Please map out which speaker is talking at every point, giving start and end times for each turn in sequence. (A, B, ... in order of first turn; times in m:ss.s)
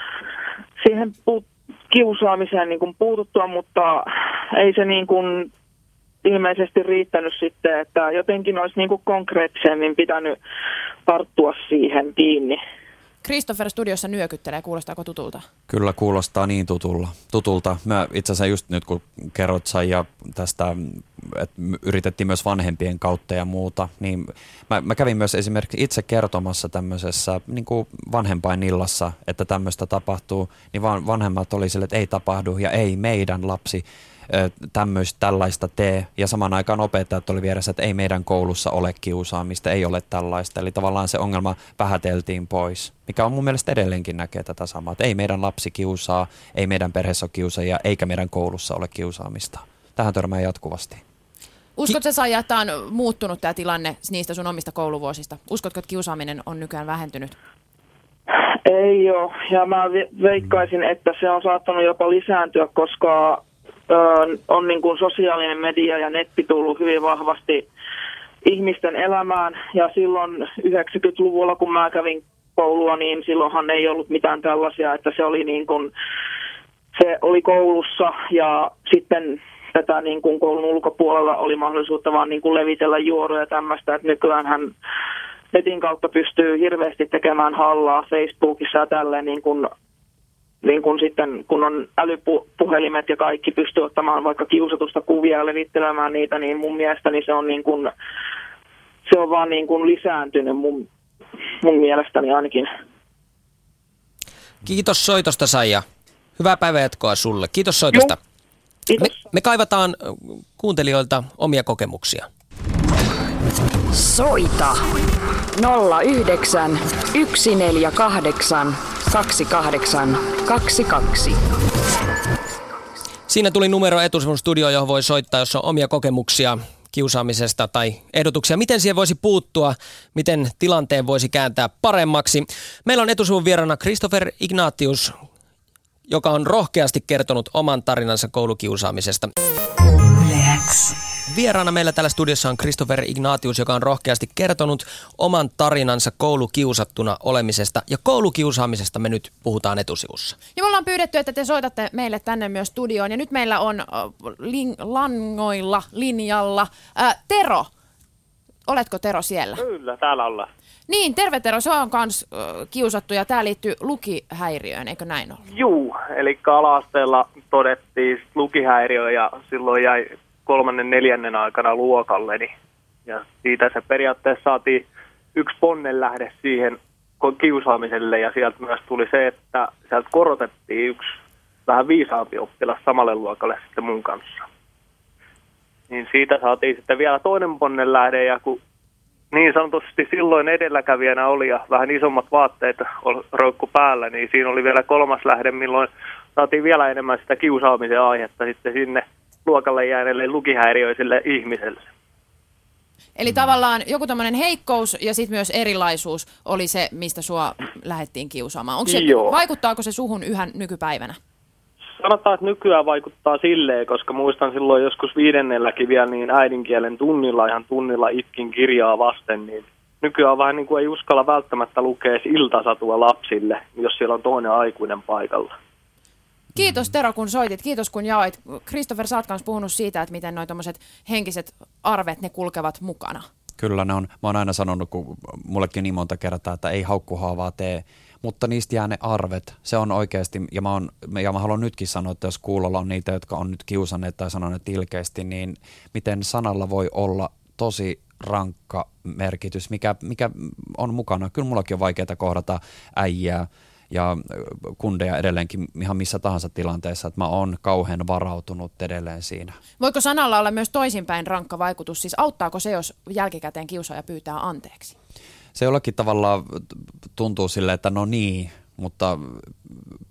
0:00.8-0:04.0 A
0:04.6-0:05.4 A
0:06.2-0:10.3 A
0:11.0-0:12.6 A
0:13.2-0:15.4 B
0:15.7-0:51.0 C
0:51.8-0:57.3 B
0:58.7-1:03.2 A
1:03.9-1:07.6 A
1:08.5-1:15.9 A
1:17.0-1:24.7 A
1:25.5-1:29.7 A
1:30.6-1:37.9 A
1:39.0-1:40.8 A
1:41.6-1:42.6 A
1:44.7-1:45.8 D
1:46.4-1:48.1 D
1:49.0-1:52.3 D
1:53.9-1:54.8 E
1:55.5-2:01.4 E
2:03.3-2:15.2 D
2:16.1-2:19.3 D
2:21.3-2:30.4 D
2:30.5-2:37.7 B
2:38.7-2:39.6 B
2:39.6-2:40.5 F
2:40.9-2:45.4 B
2:45.4-2:52.5 F
2:53.1-3:01.1 F
3:01.7-3:04.5 F
3:05.9-3:08.6 F
3:09.3-3:21.8 F
3:23.2-3:31.2 B
3:28.8-3:29.3 F
3:32.0-3:45.5 F
3:46.6-3:53.2 B
3:53.6-4:19.6 C
4:19.8-4:24.9 B
4:25.6-4:29.8 C